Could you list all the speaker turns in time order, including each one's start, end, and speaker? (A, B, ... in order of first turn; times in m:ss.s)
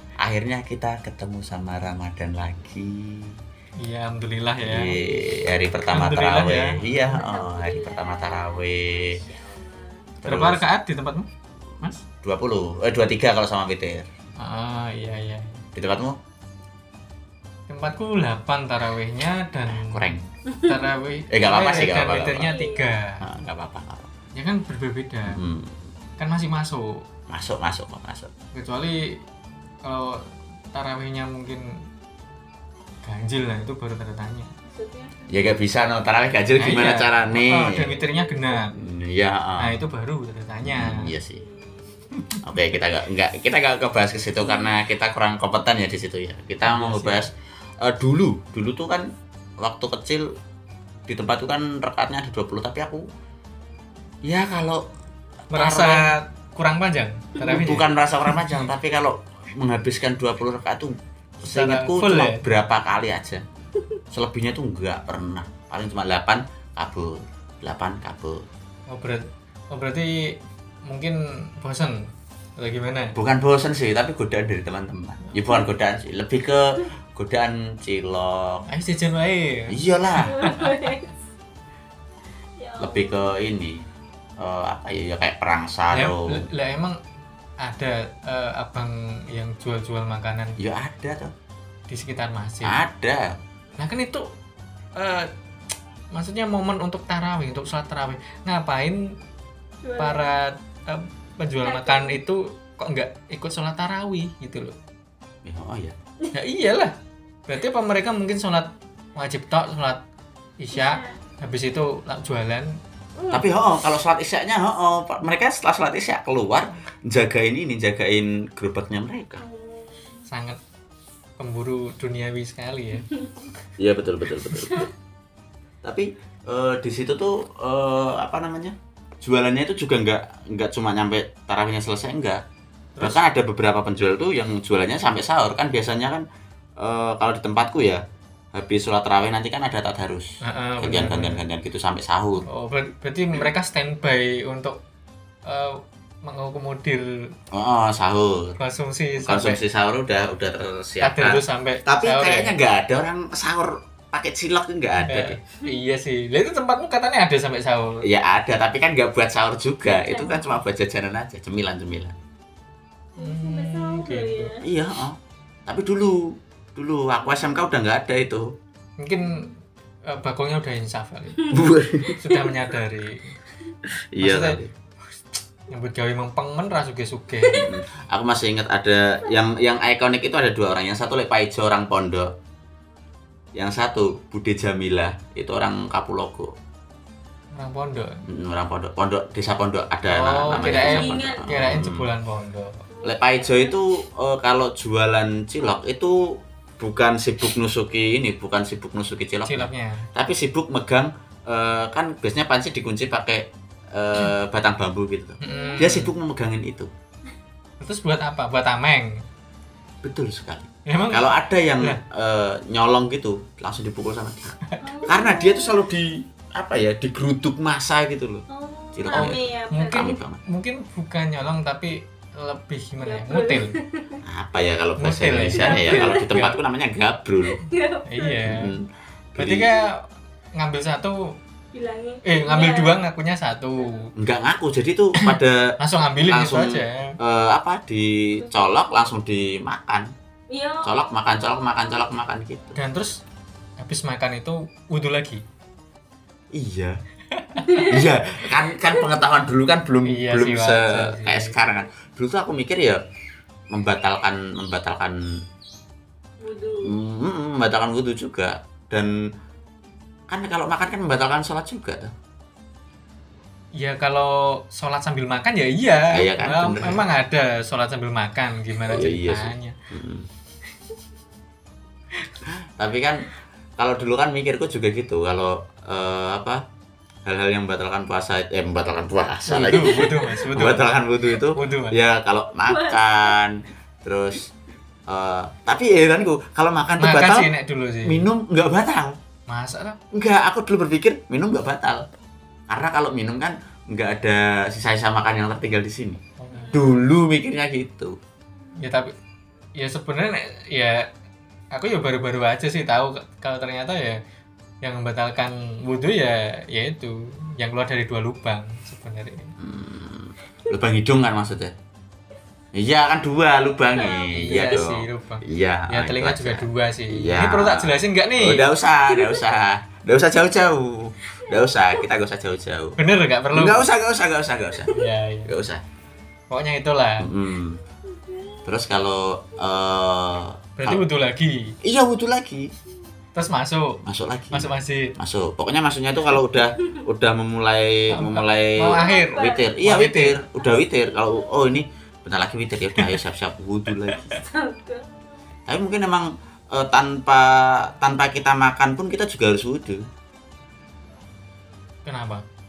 0:00.2-0:03.4 A
0:03.8-0:05.0 B
0:04.6-0:09.2 A
0:05.9-0:06.8 B
0:07.0-0:10.1 C
0:10.2-0:10.6 A
0:10.2-0:11.3 B
0:12.0-0:14.1 A
0:14.4-0:15.7 B
0:15.7-0:16.2 A
0:17.7-0:23.2 B
0:19.7-0:20.2 A
0:20.5-0:20.9 C
0:21.3-0:22.5 A
0:22.3-0:23.0 C
0:23.2-0:24.1 A
0:24.3-0:25.4 B
0:25.3-0:25.8 A
0:26.2-0:27.0 B
0:27.3-0:28.3 A
0:28.5-0:29.2 B
0:29.8-0:31.8 B
0:33.0-0:34.5 B
0:34.7-0:35.6 C
0:35.3-0:37.9 A
0:36.6-0:38.8 B
0:37.8-0:38.6 C
0:38.7-0:39.8 A
0:39.6-0:41.1 B
0:40.6-0:41.4 A
0:41.3-0:42.1 C
0:42.4-0:50.3 A
0:44.5-0:44.8 C
0:46.6-0:47.2 B
0:51.1-0:53.1 A
0:54.2-0:54.9 A
0:55.5-0:58.5 B
0:55.5-0:56.1 A
0:57.4-1:03.4 A
1:01.4-1:02.5 B
1:04.1-1:08.4 A
1:08.9-1:13.2 B
1:13.1-1:18.7 A
1:18.7-1:20.7 B
1:19.7-1:20.4 A
1:20.1-1:21.1 C
1:22.6-1:23.4 C
1:22.8-1:23.8 A
1:24.4-1:26.5 A
1:25.9-1:27.0 B
1:27.6-1:30.6 B
1:30.6-1:31.3 A
1:31.9-1:32.8 B
1:32.6-1:33.4 A
1:33.8-1:34.3 B
1:35.0-1:35.3 B
1:36.1-1:39.1 B
1:39.8-1:40.3 C
1:40.0-1:44.8 B
1:41.6-1:42.2 C
1:45.4-1:45.9 A
1:46.3-1:46.9 B
1:47.5-1:50.0 B
1:50.6-1:52.8 B
1:50.7-1:51.2 C
1:53.2-1:53.5 C
1:53.3-1:59.4 A
1:59.4-2:00.1 C
2:00.3-2:00.6 B
2:01.4-2:03.1 B
2:03.1-2:03.5 C
2:03.8-2:04.9 A
2:04.5-2:04.9 C
2:05.8-2:12.4 A
2:13.0-2:13.2 B
2:13.0-2:16.2 A
2:16.8-2:18.0 A
2:18.5-2:22.4 A
2:20.4-2:21.4 B
2:22.5-2:24.8 B
2:25.4-2:27.2 B
2:27.5-2:28.6 A
2:28.6-2:29.6 B
2:29.2-2:35.4 A
2:31.0-2:32.6 B
2:35.0-2:38.0 B
2:38.0-2:42.2 A
2:39.9-2:40.6 C
2:43.2-2:44.7 C
2:43.2-2:44.6 B
2:44.6-2:48.6 A
2:49.0-2:51.6 B
2:51.4-2:52.7 C
2:51.5-2:52.2 A
2:52.1-2:53.4 B
2:54.1-2:54.7 A
2:54.2-2:54.6 B
2:55.1-2:57.7 B
2:57.5-3:02.4 A
3:03.6-3:06.5 A
3:07.5-3:08.2 B
3:08.3-3:12.1 A
3:10.1-3:12.8 B
3:10.5-3:11.7 C
3:12.9-3:14.0 C
3:13.0-3:26.9 A
3:19.4-3:20.1 B
3:25.4-3:26.1 B
3:25.4-3:25.9 C
3:27.8-3:29.2 B
3:30.0-3:40.4 A
3:30.9-3:32.0 B
3:34.7-3:35.0 B
3:34.8-3:35.9 C
3:38.5-3:40.2 C
3:39.1-3:43.8 B
3:43.0-3:44.2 C
3:44.2-3:47.6 A
3:45.0-3:46.6 B
3:45.5-3:46.4 C
3:47.4-3:48.5 C
3:48.1-3:48.7 B
3:48.4-3:49.7 A
3:49.4-3:51.3 B
3:51.7-3:53.0 C
3:52.2-3:54.1 B
3:54.2-4:00.1 A
3:55.2-3:57.2 B
3:58.4-3:58.7 C
4:00.5-4:01.0 C
4:00.8-4:02.8 A
4:02.8-4:03.2 B
4:03.8-4:05.4 B
4:06.5-4:07.0 A
4:07.3-4:07.8 B
4:07.6-4:08.1 C
4:07.8-4:13.0 A
4:10.0-4:11.6 B
4:13.7-4:15.2 A
4:16.4-4:17.0 C
4:16.8-4:19.2 A
4:20.3-4:22.1 A
4:23.8-4:29.8 B
4:26.1-4:27.1 A
4:28.9-4:30.3 A
4:32.2-4:32.4 B
4:32.5-4:33.3 A
4:33.8-4:36.6 A
4:37.2-4:44.5 A
4:39.5-4:40.9 B
4:39.9-4:40.2 C
4:41.5-4:42.0 B
4:42.7-4:43.4 C
4:45.1-4:47.5 A
4:47.0-4:48.3 B
4:48.0-4:49.2 A
4:49.5-4:50.0 B
4:50.1-4:52.1 A
4:52.7-4:56.2 A
4:56.4-4:56.8 B
4:56.5-4:56.9 C
4:56.7-4:58.2 A
4:58.8-4:59.1 B
4:59.8-5:01.1 B
5:01.7-5:04.2 B
5:04.8-5:09.5 B
5:09.6-5:11.7 A
5:12.7-5:23.0 A
5:14.0-5:14.3 C
5:14.3-5:18.7 B
5:19.1-5:19.5 C
5:21.4-5:21.8 C
5:23.0-5:23.9 B
5:23.5-5:25.8 A
5:24.9-5:25.5 B
5:26.5-5:27.3 B
5:27.2-5:27.8 A
5:28.1-5:28.7 C
5:28.6-5:31.0 A
5:30.8-5:31.8 B
5:31.8-5:32.7 A
5:33.4-5:35.2 B
5:34.0-5:44.4 A
5:36.8-5:37.1 C
5:38.1-5:40.4 B
5:38.9-5:39.7 C
5:44.3-5:45.4 C
5:45.7-5:50.1 A
5:52.0-5:52.4 B